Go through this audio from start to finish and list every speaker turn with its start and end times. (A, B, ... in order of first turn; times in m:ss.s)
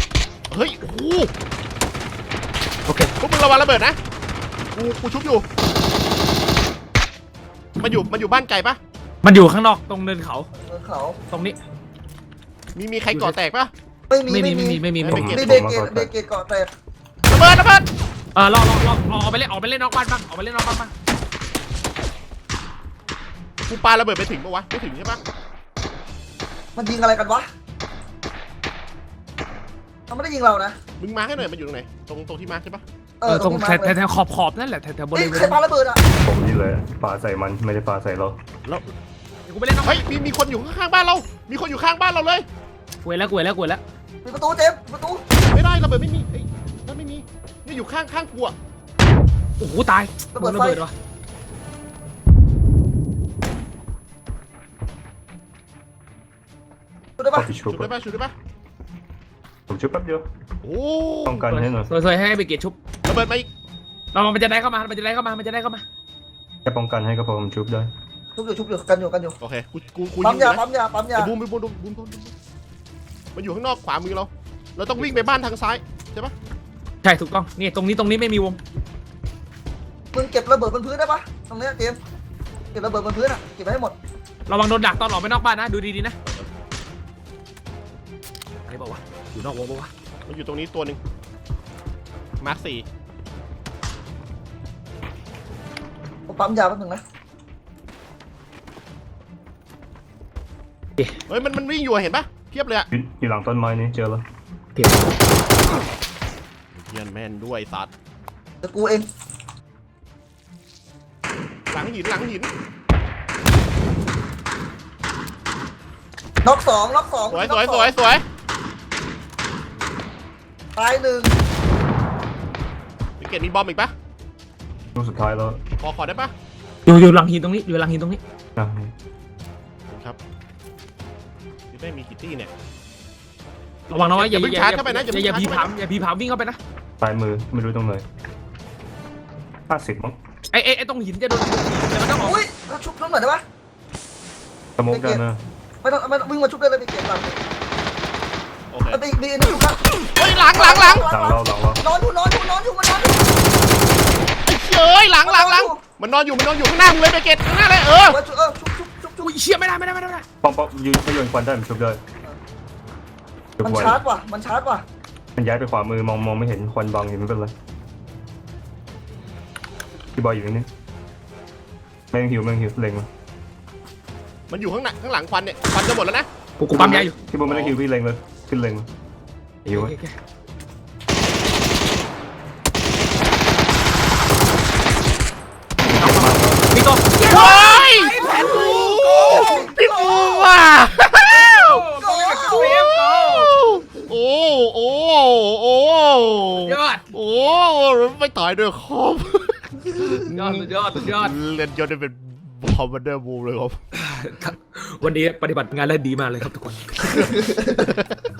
0:00.5-0:01.3 A
0:02.8-0:03.1 B
0:03.2-0:04.0 A
0:04.7-0:05.4 A
0:07.8-0:08.8 A
0:09.2-0:10.5 B
0:10.6-0:11.2 C
0:11.3-0:11.6 B
0:12.7-0:13.7 A
0:13.1-0:13.4 B
0:14.1-0:16.7 C
0:14.3-0:15.3 B
0:15.0-0:15.7 A
0:15.0-0:16.1 D
0:17.2-0:17.9 A
0:18.3-0:20.9 B
0:23.7-0:25.2 A
0:26.8-0:27.5 C
0:30.1-0:30.8 C
0:31.0-0:32.8 A
0:33.2-0:34.0 C
0:33.2-0:35.6 B
0:35.1-0:36.0 C
0:36.2-0:38.4 D
0:39.4-0:40.0 B
0:39.8-0:42.5 A
0:43.0-0:43.8 B
0:44.2-0:45.2 C
0:45.4-0:48.5 A
0:49.6-0:50.9 B
0:50.3-0:50.8 C
0:57.2-0:57.5 C
0:57.3-0:57.9 D
0:57.6-0:58.3 A
0:59.7-1:00.2 D
1:00.6-1:01.5 A
1:01.2-1:01.9 D
1:01.5-1:02.7 B
1:03.0-1:03.5 A
1:04.1-1:05.8 B
1:06.6-1:07.9 D
1:08.4-1:09.4 C
1:09.4-1:12.3 A
1:10.2-1:11.3 C
1:13.3-1:16.3 A
1:15.0-1:15.3 B
1:17.0-1:18.6 B
1:20.1-1:22.0 C
1:22.7-1:23.9 C
1:24.5-1:26.1 B
1:28.7-1:29.9 B
1:30.2-1:31.0 A
1:32.4-1:32.8 A
1:36.3-1:37.0 C
1:41.3-1:42.9 A
1:42.9-1:44.2 D
1:46.7-1:47.9 A
1:48.6-1:49.1 C
1:51.7-1:52.5 A
1:56.4-1:57.9 C
1:57.3-1:58.2 A
2:00.8-2:01.3 C
2:03.2-2:03.9 A
2:04.9-2:05.6 D
2:05.8-2:06.3 A
2:06.8-2:08.2 B
2:08.6-2:08.9 D
2:09.9-2:10.2 A
2:11.7-2:12.5 A
2:13.9-2:16.6 B
2:14.1-2:15.7 A
2:17.0-2:18.0 D
2:19.7-2:20.2 D
2:20.5-2:22.4 B
2:22.2-2:23.4 C
2:24.8-2:25.4 D
2:24.8-2:25.2 C
2:25.8-2:27.4 C
2:28.7-2:29.0 A
2:28.9-2:33.3 C
2:30.0-2:31.1 A
2:31.0-2:31.8 D
2:34.4-2:38.2 A
2:35.2-2:35.8 C
2:38.1-2:39.3 C
2:39.2-2:40.2 B
2:40.4-2:42.0 D
2:43.6-2:44.0 D
2:43.6-2:44.8 C
2:45.4-2:47.5 D
2:50.2-2:50.7 D
2:52.1-2:53.1 D
2:54.5-2:57.8 A
2:56.6-2:57.2 B
2:57.2-2:58.9 D
2:59.6-2:59.9 D
2:59.7-3:00.1 B
3:05.9-3:06.7 D
3:06.0-3:09.7 B
3:07.2-3:11.9 A
3:08.2-3:10.5 C
3:11.3-3:13.5 B
3:11.9-3:12.8 C
3:12.5-3:23.8 A
3:16.6-3:17.0 B
3:20.3-3:21.4 B
3:23.9-3:27.3 B
3:27.0-3:27.9 C
3:27.7-3:28.1 A